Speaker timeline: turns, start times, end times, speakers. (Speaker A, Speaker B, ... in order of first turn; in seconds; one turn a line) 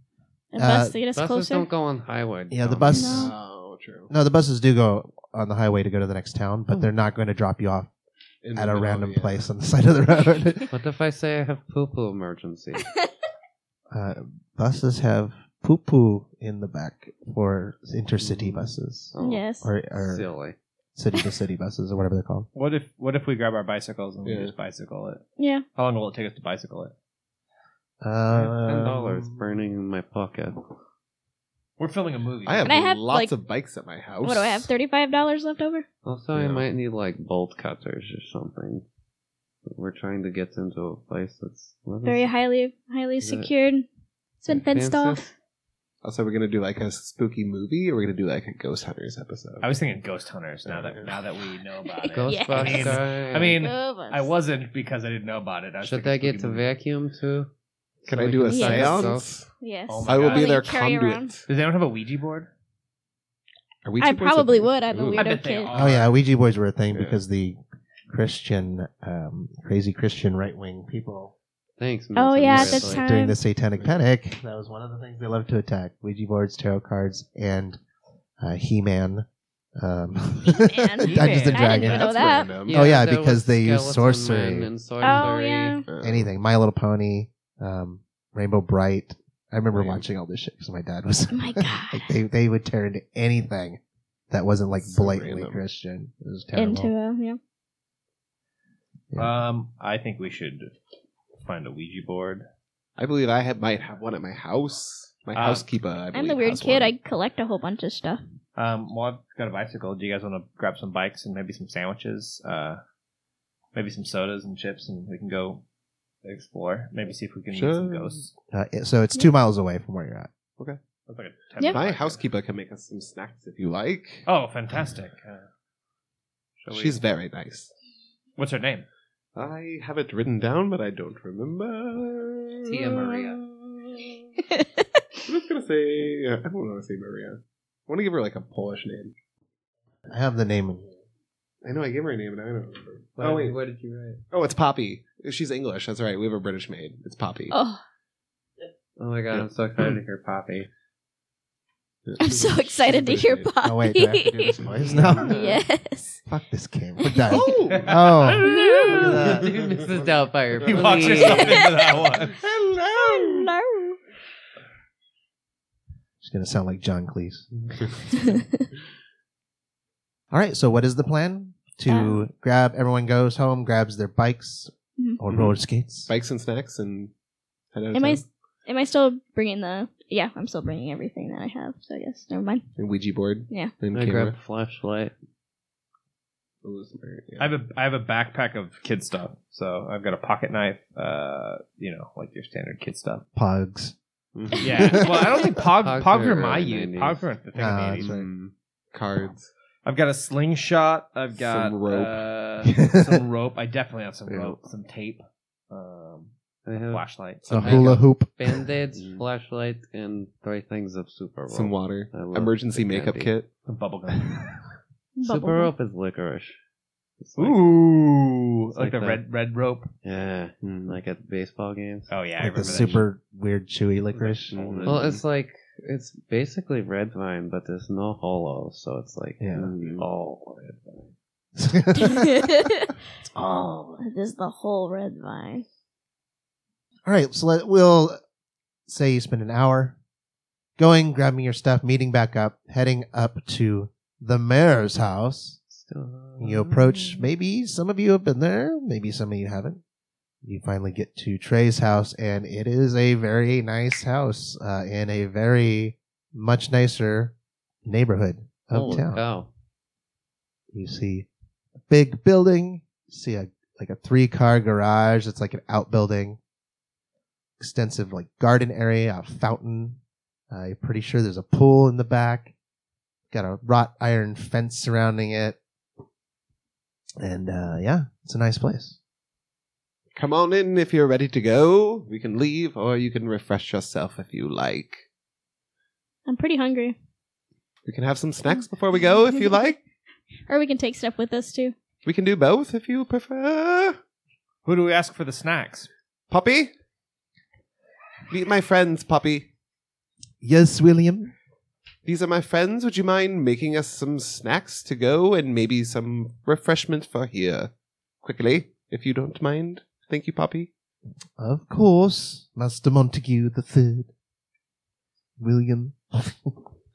Speaker A: 0.5-1.7
Speaker B: 0.6-0.9
Speaker C: 1.1-3.2
Speaker B: 2.5-3.3
Speaker A: 2.9-3.3
Speaker D: 3.1-4.1
Speaker B: 4.1-7.9
Speaker D: 8.4-9.4
Speaker B: 8.5-10.7
Speaker C: 10.7-12.9
Speaker B: 13.9-20.3
Speaker D: 18.2-18.7
Speaker C: 19.1-19.4
Speaker A: 19.2-19.7
Speaker C: 19.9-20.6
Speaker B: 20.9-22.5
Speaker E: 22.5-25.2
Speaker D: 24.2-24.5
Speaker A: 25.4-25.6
Speaker E: 25.8-26.9
Speaker B: 28.0-29.3
Speaker C: 28.3-30.7
Speaker E: 31.8-32.7
Speaker D: 32.5-34.7
Speaker A: 32.6-33.3
Speaker A: 34.2-35.8
Speaker C: 36.0-38.8
Speaker D: 36.3-36.7
Speaker C: 39.7-42.3
Speaker A: 42.0-43.9
Speaker C: 43.2-43.5
Speaker A: 44.4-45.3
Speaker C: 44.5-45.3
Speaker D: 46.0-49.7
Speaker E: 49.6-56.7
Speaker D: 50.6-51.1
Speaker A: 52.0-53.0
Speaker C: 52.1-53.6
Speaker A: 53.5-54.3
Speaker C: 55.8-57.5
Speaker C: 58.0-59.2
Speaker D: 58.1-59.5
Speaker A: 58.5-61.3
Speaker E: 59.9-60.6
Speaker D: 60.0-61.4
Speaker E: 61.5-62.5
Speaker D: 63.8-65.3
Speaker A: 64.0-65.7
Speaker E: 65.1-66.1
Speaker B: 65.7-71.3
Speaker D: 66.9-67.2
Speaker C: 71.8-73.0
Speaker A: 72.1-73.4
Speaker B: 72.5-77.8
Speaker B: 78.4-79.2
Speaker B: 79.8-82.1
Speaker A: 80.4-82.5
Speaker E: 81.1-81.5
Speaker D: 81.6-82.9
Speaker C: 82.6-85.8
Speaker B: 82.7-84.7
Speaker A: 85.0-85.8
Speaker D: 85.9-86.3
Speaker B: 86.0-93.8
Speaker D: 89.7-90.0
Speaker A: 91.3-92.1
Speaker B: 94.3-96.9
Speaker D: 94.8-95.6
Speaker A: 96.5-97.4
Speaker E: 99.1-100.7
Speaker E: 101.4-102.4
Speaker D: 103.0-106.9
Speaker E: 105.3-105.6
Speaker A: 106.1-108.2
Speaker E: 108.5-112.8
Speaker E: 113.7-115.6
Speaker E: 116.2-118.3
Speaker D: 117.5-118.2
Speaker B: 118.5-120.3
Speaker E: 121.1-122.2
Speaker D: 121.7-124.2
Speaker E: 124.2-125.5
Speaker D: 126.7-127.7
Speaker E: 128.4-128.8
Speaker D: 129.3-134.1
Speaker C: 132.7-133.4
Speaker A: 134.5-135.0
Speaker D: 135.2-139.1
Speaker B: 140.1-140.8
Speaker D: 141.6-143.6
Speaker C: 143.2-144.2
Speaker D: 144.3-147.5
Speaker A: 147.5-147.8
Speaker C: 149.0-150.7
Speaker D: 149.3-150.0
Speaker D: 152.1-153.5
Speaker A: 152.2-154.6
Speaker B: 153.6-155.3
Speaker D: 154.4-155.5
Speaker C: 154.8-155.5
Speaker A: 155.2-156.2
Speaker B: 156.3-159.5
Speaker A: 157.0-157.5
Speaker D: 157.3-158.1
Speaker E: 157.7-159.1
Speaker A: 158.4-159.0
Speaker C: 158.9-161.7
Speaker D: 159.4-160.1
Speaker E: 160.6-162.4
Speaker D: 160.6-161.4
Speaker A: 161.2-161.7
Speaker D: 162.2-163.5
Speaker A: 162.9-164.0
Speaker B: 166.2-167.4
Speaker D: 167.7-168.1
Speaker A: 168.2-168.6
Speaker B: 170.3-176.1
Speaker A: 171.9-172.2
Speaker D: 175.3-177.1
Speaker D: 177.7-178.3
Speaker A: 177.9-182.6
Speaker D: 182.8-184.4
Speaker C: 183.9-185.1
Speaker D: 186.6-187.5
Speaker E: 187.4-193.2
Speaker B: 193.3-193.9
Speaker D: 194.3-195.2
Speaker E: 194.6-198.1
Speaker B: 194.7-195.3
Speaker C: 195.8-197.2
Speaker B: 197.5-198.2
Speaker D: 198.0-199.5
Speaker E: 199.8-207.8
Speaker D: 201.4-202.2
Speaker B: 202.6-203.2
Speaker D: 204.3-204.6
Speaker C: 206.7-207.0
Speaker D: 207.5-208.0
Speaker B: 207.5-208.4
Speaker C: 207.6-213.3
Speaker D: 208.9-209.2
Speaker D: 211.5-213.5
Speaker E: 213.7-214.5
Speaker A: 215.2-215.7
Speaker C: 215.2-216.6
Speaker C: 217.2-217.6
Speaker E: 217.4-219.9
Speaker C: 218.8-219.2
Speaker C: 220.0-223.0
Speaker D: 220.6-221.0
Speaker E: 222.1-223.1
Speaker B: 222.4-224.5
Speaker C: 224.2-231.1
Speaker D: 224.5-225.2
Speaker B: 229.4-229.7
Speaker D: 229.5-230.1
Speaker B: 231.6-232.7
Speaker A: 232.0-232.9
Speaker B: 233.2-234.0
Speaker A: 234.0-235.6
Speaker B: 237.1-238.2
Speaker B: 238.9-240.0
Speaker B: 240.8-245.6
Speaker C: 245.7-247.3
Speaker B: 246.4-249.8
Speaker B: 250.4-257.3
Speaker B: 257.8-259.2
Speaker C: 258.7-259.5
Speaker B: 260.7-261.3
Speaker B: 261.9-266.4
Speaker B: 267.6-270.0
Speaker B: 270.5-272.5
Speaker B: 273.3-275.6
Speaker B: 277.2-279.0
Speaker D: 280.1-285.0
Speaker A: 286.3-286.9
Speaker D: 287.8-289.8
Speaker A: 290.5-291.7
Speaker D: 292.0-294.0
Speaker E: 294.6-295.9
Speaker D: 296.3-296.7
Speaker D: 298.3-299.5
Speaker B: 300.4-301.3
Speaker D: 302.0-307.7
Speaker D: 308.2-310.7
Speaker B: 311.4-314.1
Speaker B: 315.4-316.6